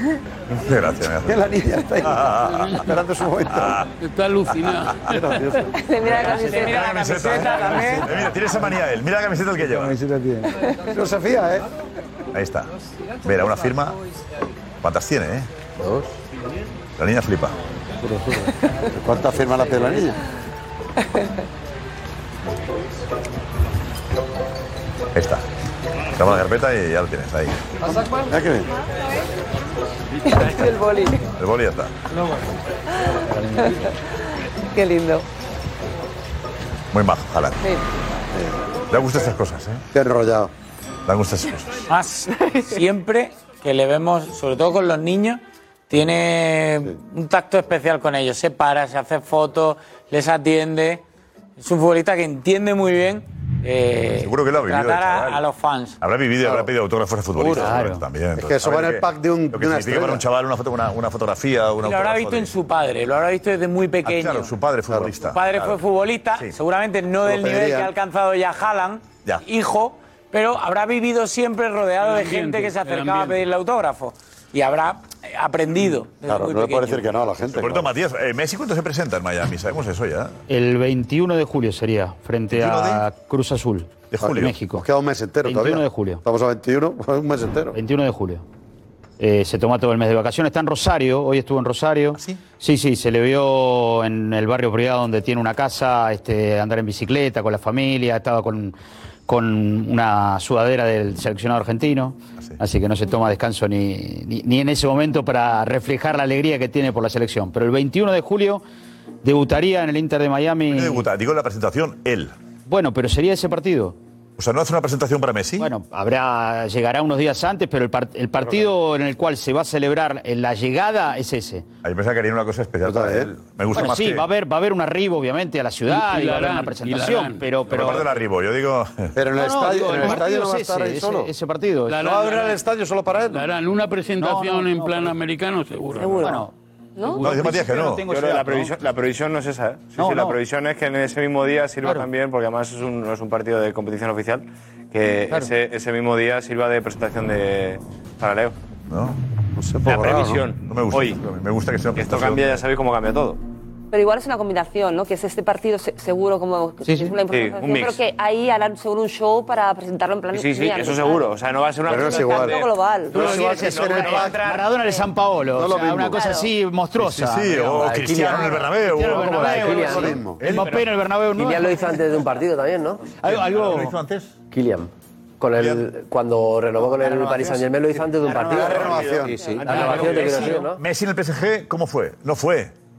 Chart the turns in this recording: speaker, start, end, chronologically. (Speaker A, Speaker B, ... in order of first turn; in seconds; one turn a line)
Speaker A: 0.5-2.9
Speaker B: 1.2-3.8
Speaker A: 3.5-3.9
Speaker C: 4.0-5.3
Speaker B: 5.1-5.7
Speaker D: 5.8-7.1
Speaker E: 6.1-8.2
Speaker A: 6.7-10.0
Speaker B: 10.9-11.7
Speaker A: 12.3-12.7
Speaker A: 13.2-14.0
Speaker A: 14.8-15.5
Speaker A: 17.0-17.6
Speaker B: 18.9-20.2
Speaker A: 25.1-25.4
Speaker A: 26.2-27.7
Speaker B: 28.2-28.7
Speaker D: 30.2-31.2
Speaker A: 31.4-31.9
Speaker F: 33.2-34.0
Speaker D: 33.6-33.9
Speaker D: 34.8-35.2
Speaker A: 36.9-37.6
Speaker B: 38.3-38.6
Speaker A: 38.9-39.8
Speaker B: 39.9-40.5
Speaker A: 41.1-41.8
Speaker E: 41.9-51.0
Speaker E: 51.6-56.0
Speaker A: 54.1-55.4
Speaker A: 56.0-62.5
Speaker F: 57.4-58.0
Speaker B: 58.4-60.2
Speaker E: 61.8-64.5
Speaker A: 64.0-65.8
Speaker E: 65.3-77.0
Speaker B: 67.3-67.9
Speaker C: 72.0-73.4
Speaker B: 76.2-77.9
Speaker A: 77.5-80.4
Speaker F: 80.5-84.9
Speaker A: 82.5-83.0
Speaker A: 84.1-84.6
Speaker B: 84.7-87.8
Speaker F: 85.4-86.2
Speaker F: 87.7-88.4
Speaker F: 89.2-98.8
Speaker A: 92.2-92.4
Speaker F: 99.3-108.6
Speaker F: 109.2-111.1
Speaker A: 110.7-112.3
Speaker F: 112.7-114.0
Speaker A: 114.4-115.7
Speaker F: 115.6-121.7
Speaker A: 121.8-124.3
Speaker B: 122.8-123.3
Speaker F: 123.7-128.1
Speaker C: 125.9-128.0
Speaker A: 127.7-129.1
Speaker B: 129.2-131.3
Speaker F: 129.3-132.1
Speaker C: 131.9-132.6
Speaker B: 131.9-133.5
Speaker C: 133.3-136.4
Speaker F: 134.2-135.2
Speaker F: 135.9-138.8
Speaker D: 137.0-137.3
Speaker A: 137.2-138.1
Speaker G: 138.0-148.6
Speaker F: 140.0-140.4
Speaker A: 148.9-149.2
Speaker B: 149.6-150.5
Speaker G: 149.8-151.2
Speaker A: 150.7-152.6
Speaker G: 152.0-153.4
Speaker D: 153.9-161.3
Speaker F: 156.8-157.2
Speaker G: 157.3-158.0
Speaker G: 160.3-164.0
Speaker B: 161.9-162.6
Speaker D: 161.9-163.3
Speaker B: 163.1-164.5
Speaker F: 163.2-172.0
Speaker E: 163.2-164.7
Speaker B: 165.5-166.2
Speaker D: 166.2-166.5
Speaker A: 167.0-169.8
Speaker H: 167.8-170.2
Speaker B: 169.3-170.4
Speaker A: 170.4-170.8
Speaker H: 171.3-173.1
Speaker F: 173.2-174.0
Speaker A: 173.2-174.3
Speaker H: 174.5-180.8
Speaker A: 175.6-175.8
Speaker F: 176.8-177.7
Speaker F: 178.2-178.6
Speaker G: 178.5-180.6
Speaker B: 178.6-179.4
Speaker F: 179.7-180.6
Speaker A: 180.8-182.7